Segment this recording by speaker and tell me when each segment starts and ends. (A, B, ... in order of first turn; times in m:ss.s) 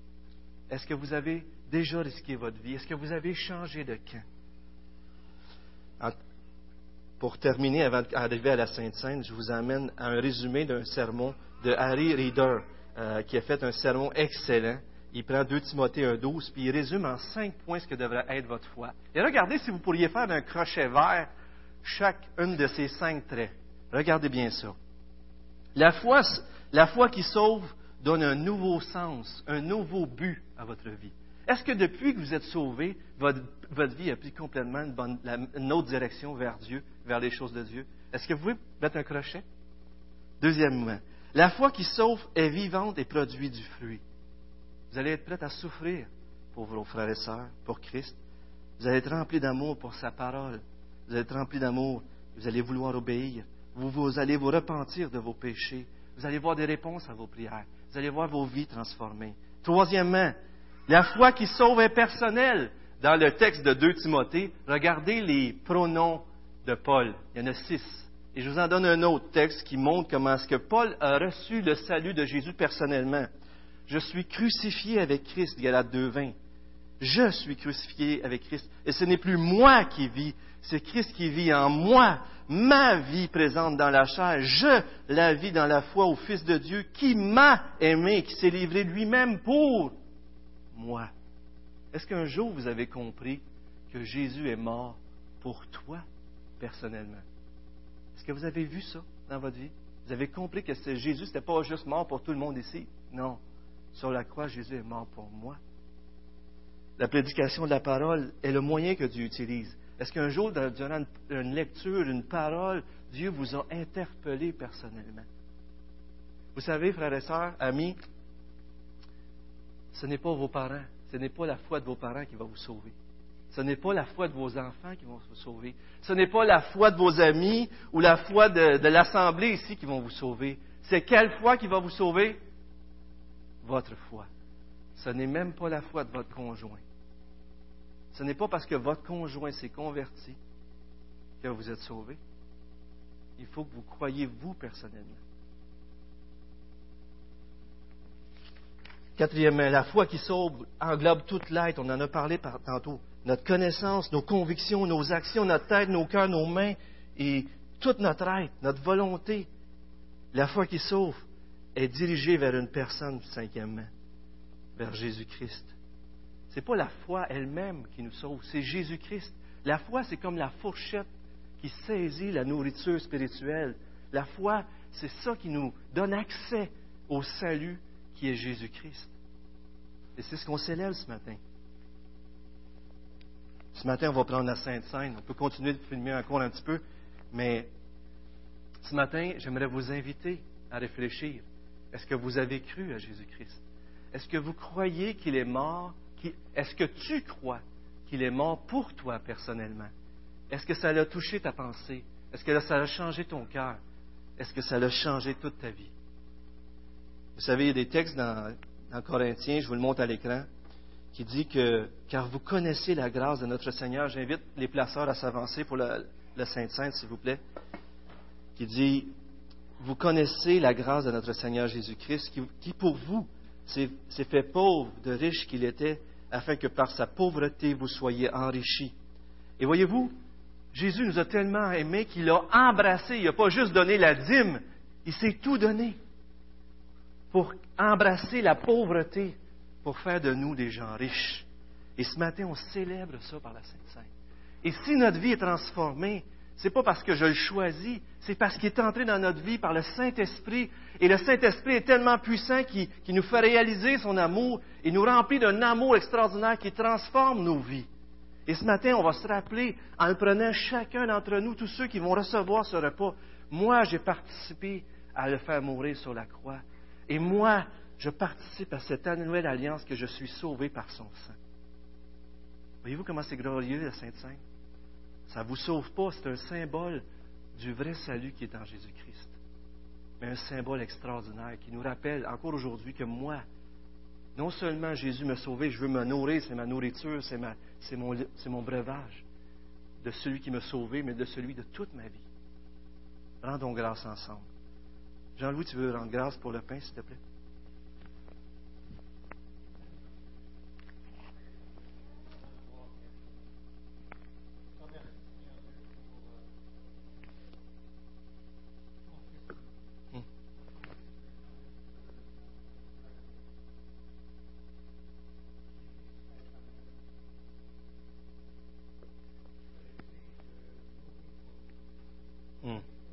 0:00.7-0:04.2 A
0:07.2-0:21.3 A
0:21.8-0:24.8 A
0:25.7-0:39.4 A
0:40.4-0:44.0 A
0:44.9-0:48.2 A
0:48.8-1:00.3 A
1:00.9-1:13.3 A
1:13.9-1:16.3 A
1:17.0-1:29.9 A
1:30.7-1:31.1 A
1:31.9-1:36.0 A
1:36.6-1:37.2 A
1:38.1-1:43.4 A
1:43.9-1:45.6 A
1:47.0-1:55.2 A
1:56.5-1:58.0 A
1:59.9-2:02.9 A
2:03.5-2:12.4 A
2:13.6-2:14.3 A
2:15.0-2:16.8 A
2:18.1-2:20.4 A
2:21.4-2:22.2 A
2:23.4-2:25.2 A
2:29.2-2:39.5 A
2:40.3-2:43.9 A
2:44.8-2:45.7 A
2:46.5-2:51.1 A
2:51.6-2:59.1 A
3:00.2-3:01.4 A
3:03.7-3:06.8 A
3:07.3-3:07.7 A
3:08.8-3:19.9 A
3:20.5-3:23.8 A
3:24.4-3:25.9 A
3:27.4-3:30.4 A
3:31.1-3:37.4 A
3:38.6-3:39.1 A
3:39.8-3:48.9 A
3:49.6-3:50.1 A
3:50.7-3:56.0 A
3:57.3-4:01.4 A
4:02.0-4:04.1 A
4:04.6-4:17.9 A
4:18.5-4:31.4 A
4:32.8-4:34.4 A
4:35.3-4:37.0 A
4:37.5-4:39.4 A
4:40.2-4:43.4 A
4:44.4-4:49.2 A
4:50.0-4:52.2 A
4:53.4-4:54.4 A
4:55.4-4:57.2 A